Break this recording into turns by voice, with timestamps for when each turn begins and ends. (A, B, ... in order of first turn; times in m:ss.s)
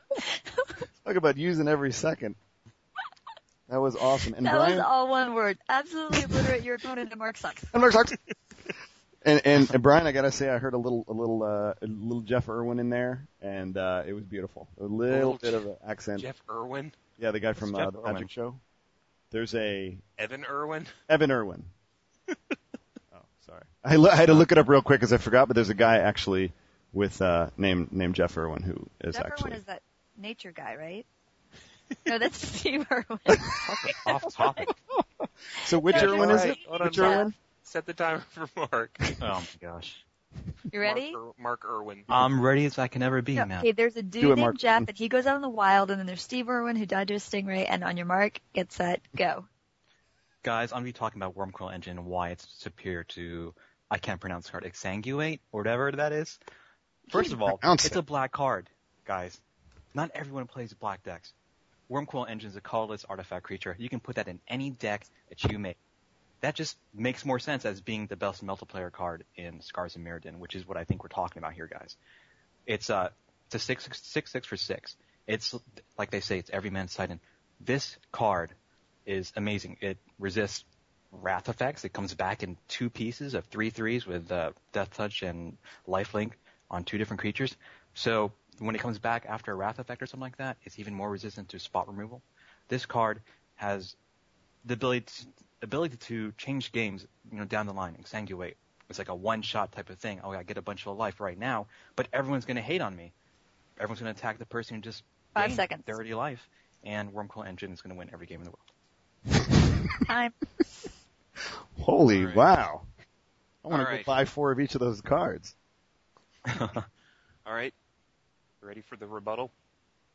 0:01.0-0:02.4 A
0:03.7-0:04.9 A
0:04.4-0:07.7 B
0:07.7-0:08.2 A
0:09.2-0:16.3 A
0:15.1-0:15.6 C
0:16.2-0:17.0 C
0:17.2-0:18.6 A
0:17.6-0:18.3 D
0:19.3-0:20.0 A
0:20.2-0:20.9 C
0:21.1-0:21.7 A
0:23.1-0:29.6 A
0:29.1-0:31.1 B
0:32.1-0:34.7 B
0:33.5-0:34.7 D
0:35.5-0:37.4 A
0:35.9-0:37.3 B
0:35.9-0:39.1 C
0:39.2-0:40.0 D
0:40.7-0:41.2 B
0:40.8-0:42.1 C
0:42.1-0:43.7 D
0:43.4-0:49.5 B
0:44.2-0:44.9 A
0:50.4-0:56.4 D
0:57.1-0:59.4 D
0:57.1-0:58.0 A
0:59.9-1:01.3 D
1:01.9-1:05.8 D
1:06.4-1:12.0 D
1:12.7-1:18.5 D
1:19.1-1:34.0 D
1:34.6-1:43.1 D
1:43.8-1:48.6 D
1:45.4-1:46.0 B
1:50.1-1:50.3 B
1:51.8-1:52.9 A
1:52.1-1:52.5 C
1:53.6-1:55.5 A
1:53.7-1:54.1 C
1:56.5-1:56.9 D
1:57.4-1:57.7 C
1:58.6-1:59.5 C